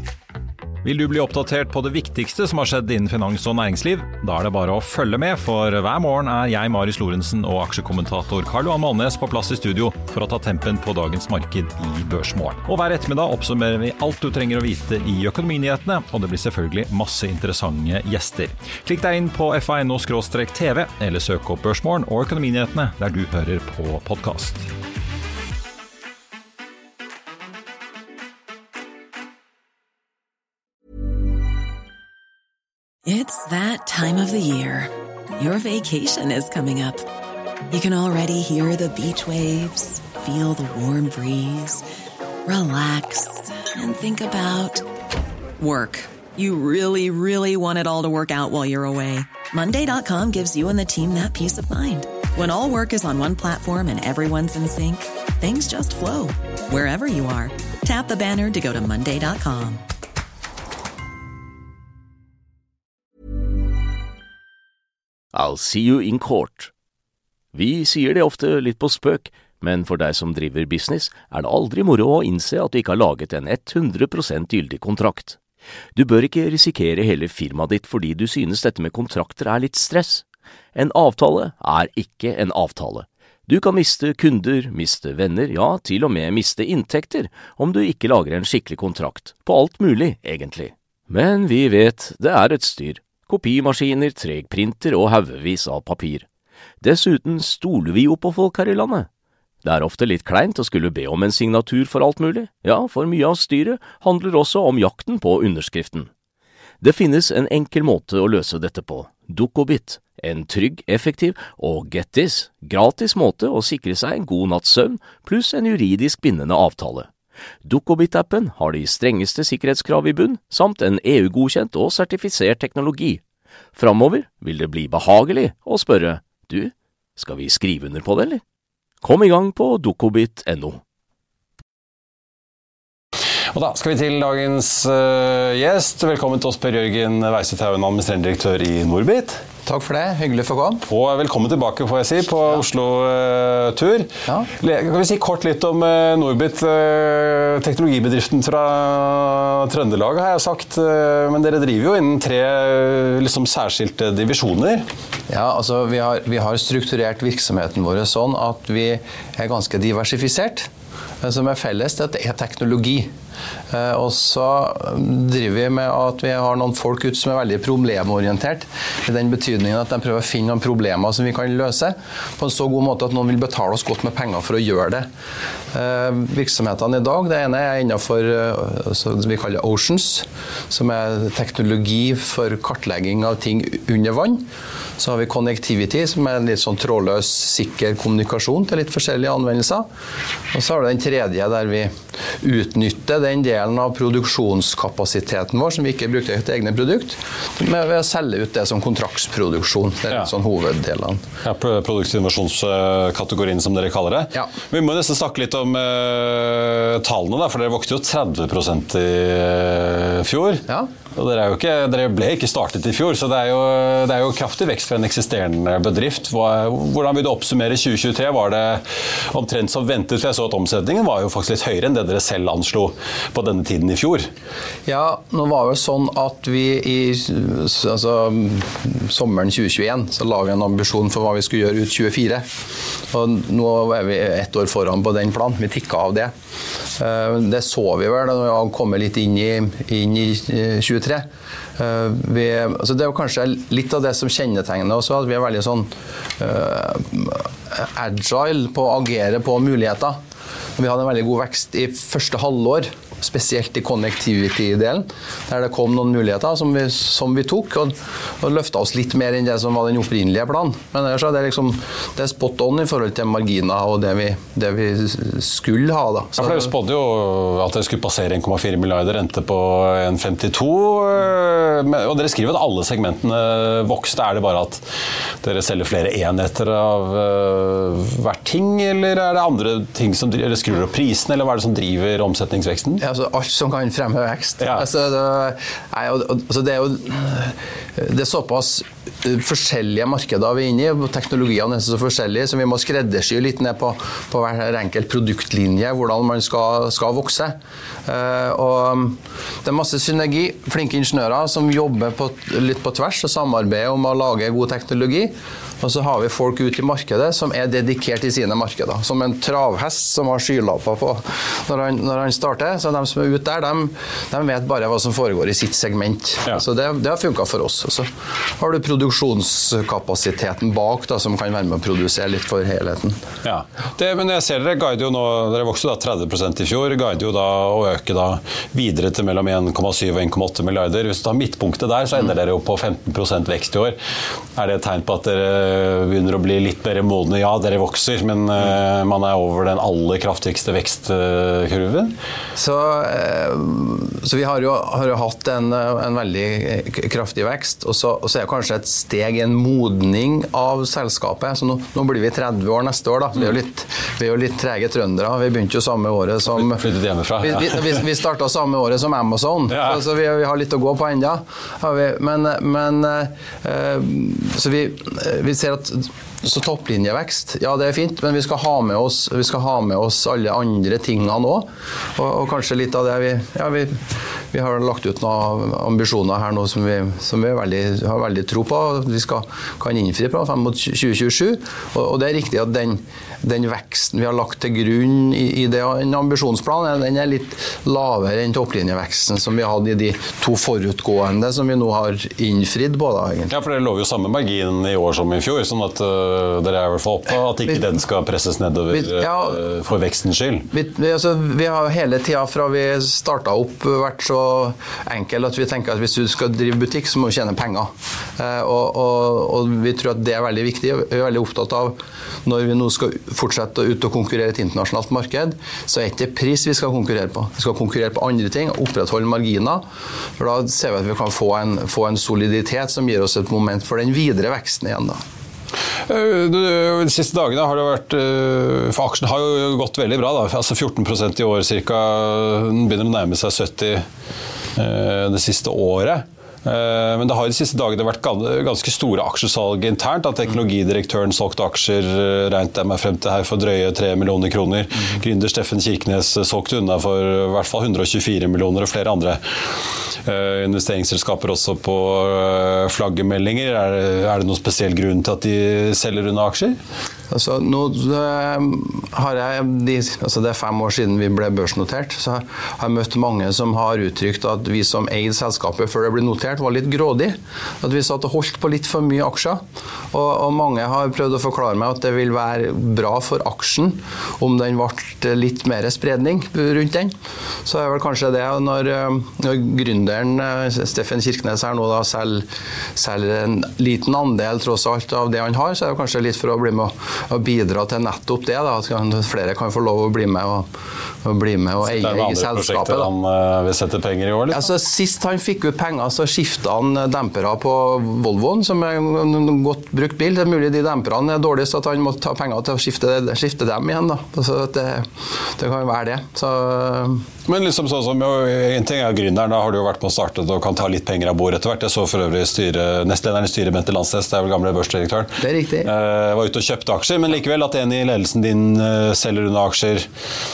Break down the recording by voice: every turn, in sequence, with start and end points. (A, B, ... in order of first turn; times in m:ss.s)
0:00.8-0:24.6 A
0:33.0-0:37.0 B
0:37.7-0:41.8 B
0:42.4-0:44.8 B
0:45.6-0:59.8 B
1:05.3-1:06.7 C
1:07.5-1:15.4 C
1:15.9-1:36.3 C
1:36.8-1:39.1 C
1:39.6-1:46.1 C
1:46.8-1:57.1 C
1:57.6-2:03.2 C
2:03.7-2:08.4 C
2:09.0-2:10.8 C
2:13.5-2:19.4 D
2:19.6-2:20.8 E
2:20.9-2:34.8 D
2:35.3-2:40.7 E
2:41.2-2:43.1 E
2:43.7-2:55.1 E
2:55.7-3:04.5 E
3:05.0-3:09.9 E
3:10.5-3:21.2 E
3:21.4-3:44.3 D
3:44.8-3:52.5 E
3:53.1-3:56.3 E
3:57.0-4:10.2 E
4:10.8-4:26.7 E
4:26.4-4:34.8 D
4:35.4-4:43.0 D
4:43.0-5:23.2 E
5:23.4-5:34.0 D
5:34.5-5:42.1 D
5:42.6-5:56.8 E
5:56.5-5:58.0 D
5:57.4-6:33.5 E
5:59.7-6:00.0 D
6:33.5-6:40.7 D
6:38.9-6:39.6 E
6:40.7-6:59.8 E
7:00.4-7:05.2 E
7:06.0-7:14.0 D
7:14.8-7:36.8 D
7:37.3-7:49.6 E
7:50.1-8:10.7 E
8:11.2-8:13.1 E
8:11.8-8:14.6 D
8:14.5-8:27.2 E
8:27.4-8:40.1 D
8:35.4-8:35.9 E